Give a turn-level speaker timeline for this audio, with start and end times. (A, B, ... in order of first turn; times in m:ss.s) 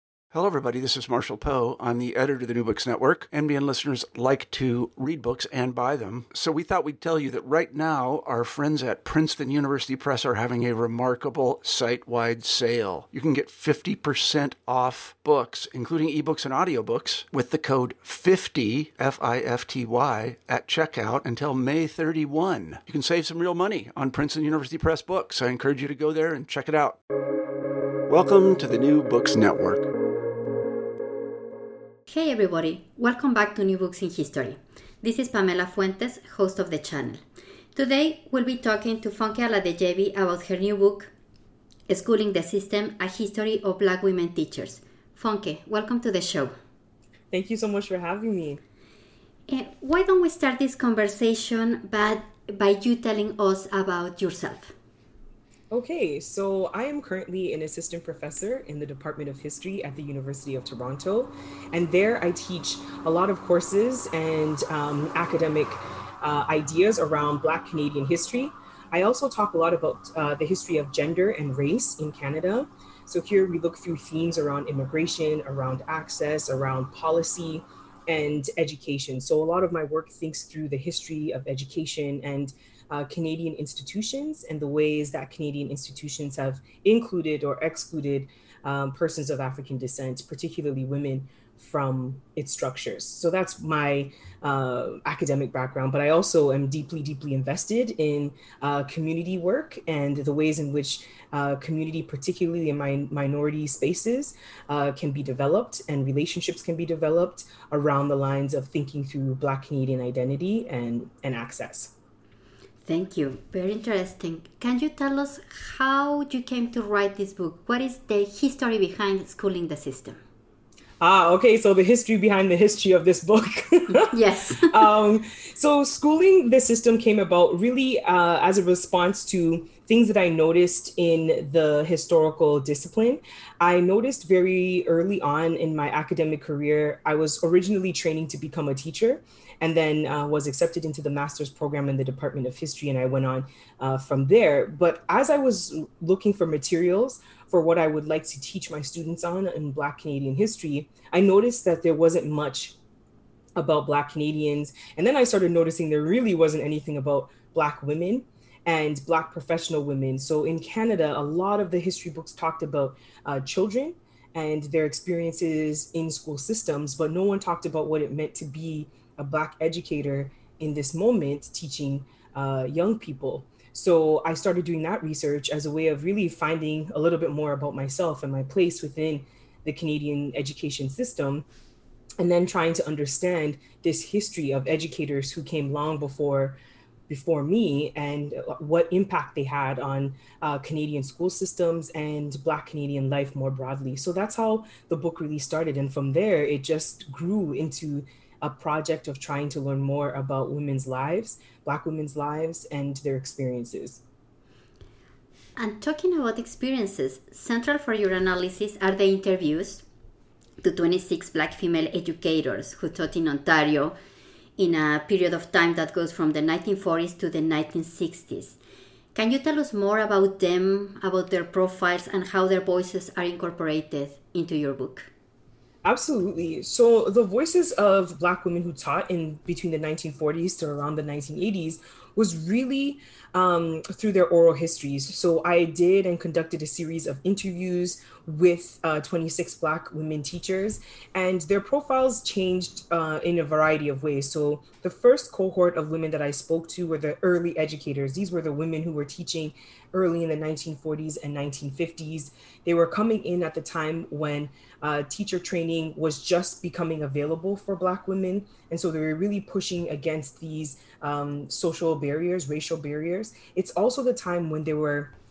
0:00.3-0:27.0 A
0:28.1-0:29.9 A
0:32.1-0:37.2 B
0:37.7-0:41.1 B
0:41.9-0:46.5 B
0:47.3-0:48.6 C
0:49.5-0:54.7 B
0:55.7-1:51.9 C
1:52.8-2:00.2 B
2:01.0-2:32.8 C
2:03.9-2:04.8 B
2:33.6-3:01.5 C
3:02.2-3:06.6 C
3:07.1-3:24.0 C
3:25.6-3:29.8 B
3:30.6-3:33.9 B
3:34.6-3:38.6 B
3:39.2-3:45.1 B
3:45.8-4:25.1 C